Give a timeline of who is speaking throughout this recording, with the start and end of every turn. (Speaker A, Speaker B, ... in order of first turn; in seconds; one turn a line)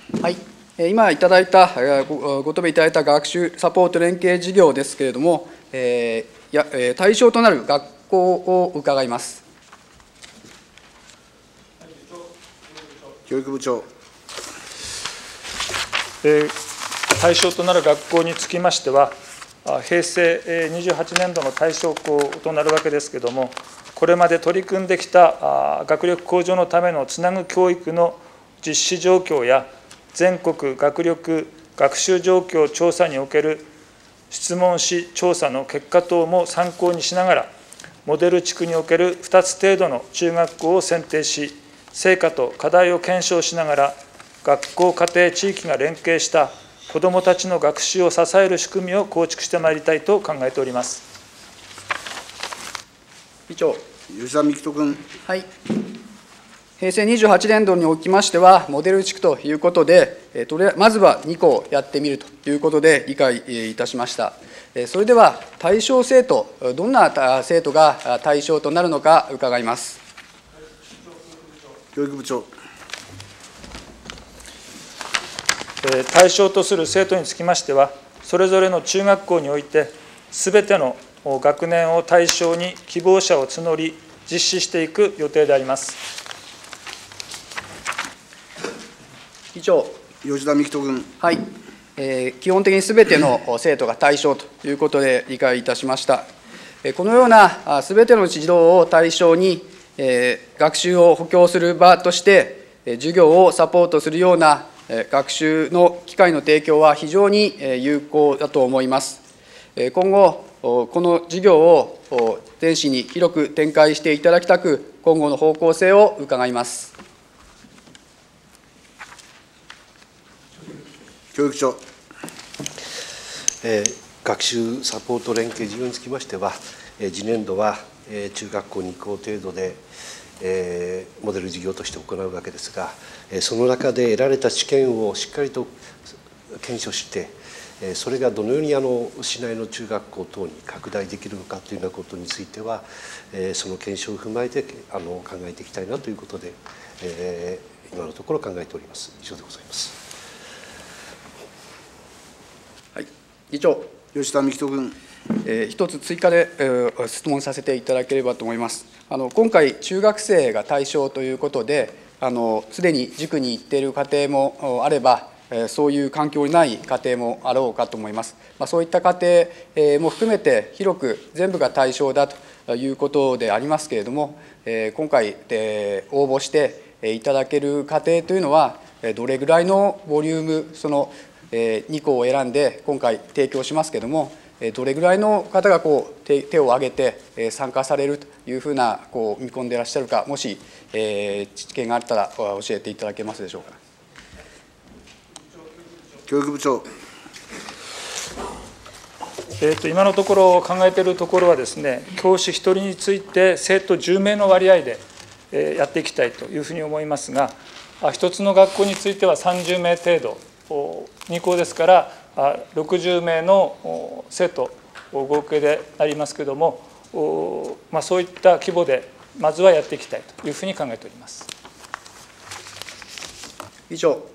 Speaker A: 0.2-9.4
Speaker B: 13.3-13.9
Speaker C: 16.2-16.6
Speaker C: 17.1-33.7
Speaker C: 34.3-37.5
Speaker C: 38.0-51.0
Speaker A: 53.5-53.8
Speaker B: 54.1-55.1
Speaker A: 56.8-70.0
Speaker B: 72.0-72.5
Speaker C: 75.8-86.0
Speaker A: 89.5-90.0
Speaker B: 90.2-91.1
Speaker A: 92.0-96.3
Speaker A: 96.8-109.2
Speaker A: 109.8-116.9
Speaker B: 121.3-121.8
Speaker D: 123.6-129.8
Speaker D: 130.4-135.7
Speaker D: 136.6-150.0
Speaker A: 152.9-153.9
Speaker B: 154.1-155.0
Speaker A: 155.4-193.8
Speaker B: 196.3-196.9
Speaker C: 199.6-221.5
Speaker A: 223.9-224.2